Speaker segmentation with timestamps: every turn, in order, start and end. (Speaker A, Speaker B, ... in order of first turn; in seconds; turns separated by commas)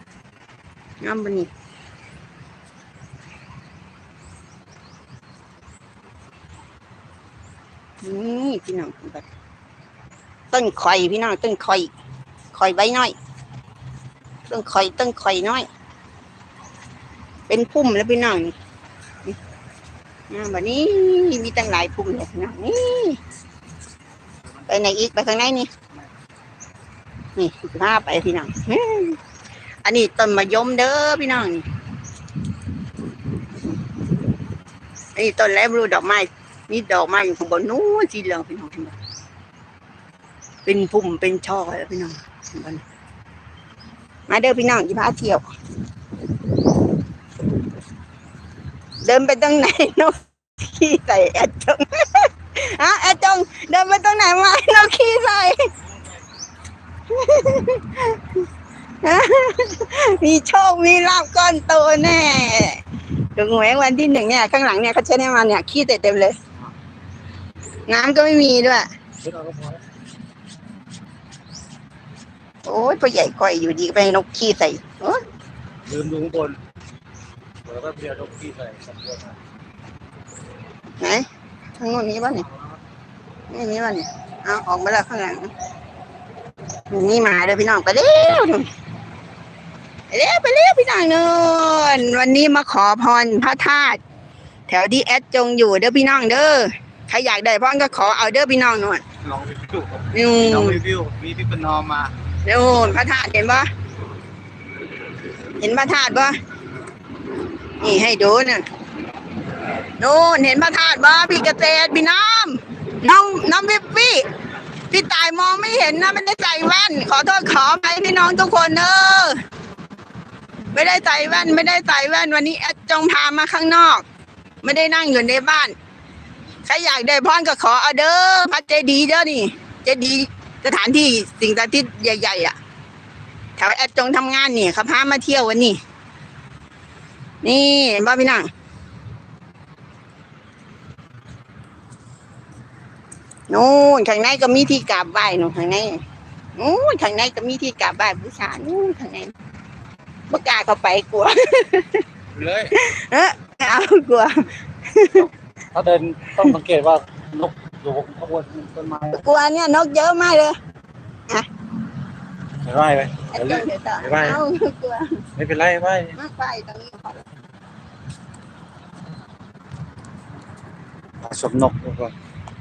Speaker A: 1.0-1.5, Speaker A: 8.0-9.2, Speaker A: 10.5-11.9, Speaker A: 12.5-13.2, Speaker A: 14.5-15.7, Speaker A: 17.5-18.6, Speaker A: 20.3-23.2, Speaker A: 24.7-25.7, Speaker A: 27.4-29.2, Speaker A: 29.8-31.7, Speaker A: 35.1-39.0, Speaker A: 40.6-42.8, Speaker A: 44.3-45.5, Speaker A: 49.0-55.7, Speaker A: 57.1-58.4, Speaker A: 59.0-62.8, Speaker A: 63.4-66.4, Speaker A: 67.9-68.9, Speaker B: 69.2-69.8, Speaker A: 72.7-75.2, Speaker B: 75.9-76.6, Speaker B: 77.7-79.4, Speaker A: 81.0-81.3, Speaker A: 81.8-82.5, Speaker A: 83.5-85.5, Speaker A: 86.9-88.7, Speaker A: 90.1-94.0, Speaker A: 94.7-99.0, Speaker B: 99.2-102.1, Speaker A: 100.1-100.8, Speaker A: 102.4-103.7, Speaker A: 105.6-106.3, Speaker A: 107.8-108.6, Speaker A: 110.0-114.3, Speaker A: 114.9-119.4, Speaker A: 120.7-124.0, Speaker A: 124.6-125.8, Speaker A: 126.7-132.6, Speaker A: 133.6-135.8, Speaker A: 137.4-138.5, Speaker A: 143.5-146.0, Speaker A: 146.6-149.3, Speaker A: 150.3-152.0, Speaker B: 152.3-152.8, Speaker A: 152.7-155.3, Speaker B: 155.7-159.2, Speaker A: 159.1-160.6, Speaker B: 162.7-164.4, Speaker A: 163.3-165.2, Speaker B: 165.4-166.2, Speaker A: 166.2-167.2, Speaker B: 171.2-172.1